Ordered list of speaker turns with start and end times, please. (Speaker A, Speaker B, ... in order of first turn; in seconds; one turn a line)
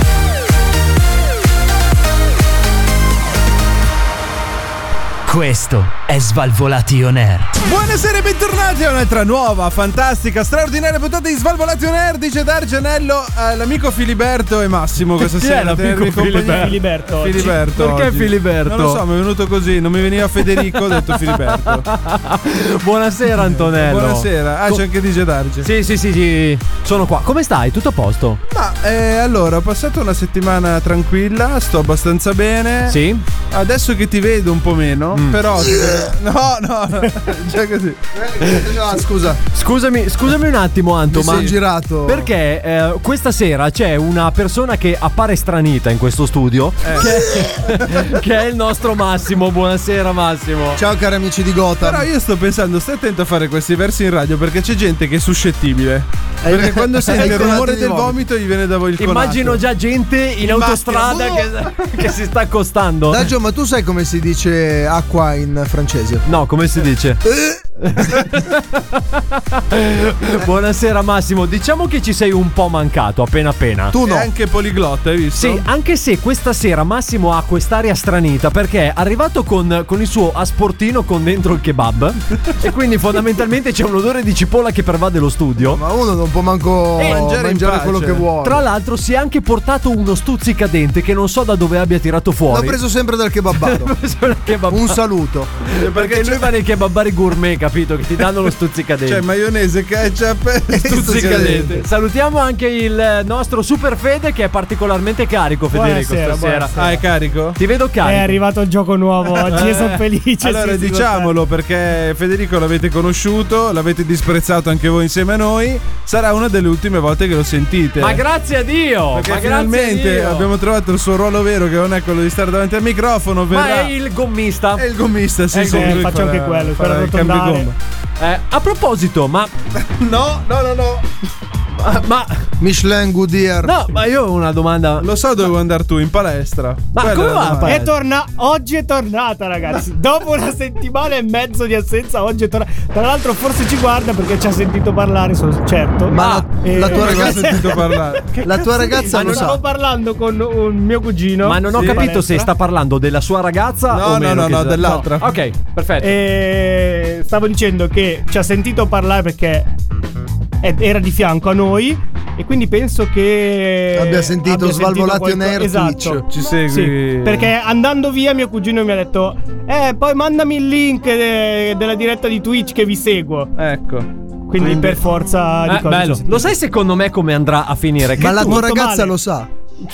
Speaker A: 5.3-7.5
Speaker B: 7.6-21.9
Speaker C: 15.2-16.8
Speaker D: 16.4-17.5
Speaker C: 17.4-19.0
Speaker C: 20.4-24.8
Speaker B: 23.3-25.7
Speaker C: 25.6-28.4
Speaker B: 28.5-33.0
Speaker C: 32.9-33.2
Speaker B: 33.5-38.0
Speaker C: 35.1-35.4
Speaker E: 38.1-39.4
Speaker C: 39.5-50.8
Speaker E: 41.1-42.3
Speaker B: 46.8-47.2
Speaker E: 50.8-52.1
Speaker B: 51.8-59.6
Speaker E: 56.4-58.2
Speaker C: 57.2-57.5
Speaker C: 59.0-63.3
Speaker B: 60.4-61.5
Speaker E: 63.1-66.2
Speaker C: 66.3-67.3
Speaker E: 67.2-67.6
Speaker C: 67.8-74.0
Speaker E: 73.9-74.3
Speaker B: 74.0-75.7
Speaker C: 75.4-85.8
Speaker E: 85.6-88.6
Speaker C: 87.0-87.3
Speaker B: 87.0-88.3
Speaker C: 88.4-92.8
Speaker E: 92.5-93.9
Speaker C: 93.5-95.0
Speaker E: 94.7-95.5
Speaker C: 95.6-99.2
Speaker B: 95.8-96.5
Speaker B: 99.1-101.8
Speaker E: 100.7-101.8
Speaker C: 100.9-106.8
Speaker D: 105.7-106.9
Speaker B: 106.8-107.6
Speaker C: 107.6-108.4
Speaker D: 108.0-111.3
Speaker C: 109.5-109.8
Speaker B: 110.4-118.2
Speaker C: 118.0-120.5
Speaker B: 119.1-123.9
Speaker C: 123.5-124.8
Speaker B: 124.8-127.8
Speaker D: 125.5-127.7
Speaker C: 125.7-126.1
Speaker C: 128.2-129.5
Speaker B: 129.8-131.1
Speaker C: 131.8-132.5
Speaker E: 132.6-133.7
Speaker C: 133.6-135.1
Speaker B: 135.0-137.8
Speaker C: 136.9-137.9
Speaker D: 137.7-147.9
Speaker E: 146.1-147.6
Speaker C: 146.2-146.5
Speaker B: 146.8-148.3
Speaker E: 148.4-149.6
Speaker D: 148.9-152.5
Speaker C: 151.4-156.2
Speaker B: 151.7-152.1
Speaker B: 153.9-155.3
Speaker D: 156.0-159.7
Speaker D: 160.6-173.5
Speaker E: 163.9-166.2
Speaker B: 166.3-167.5
Speaker B: 173.6-174.1
Speaker D: 174.5-176.5
Speaker C: 174.6-174.9
Speaker C: 175.7-178.6
Speaker E: 178.2-179.5
Speaker D: 178.4-179.1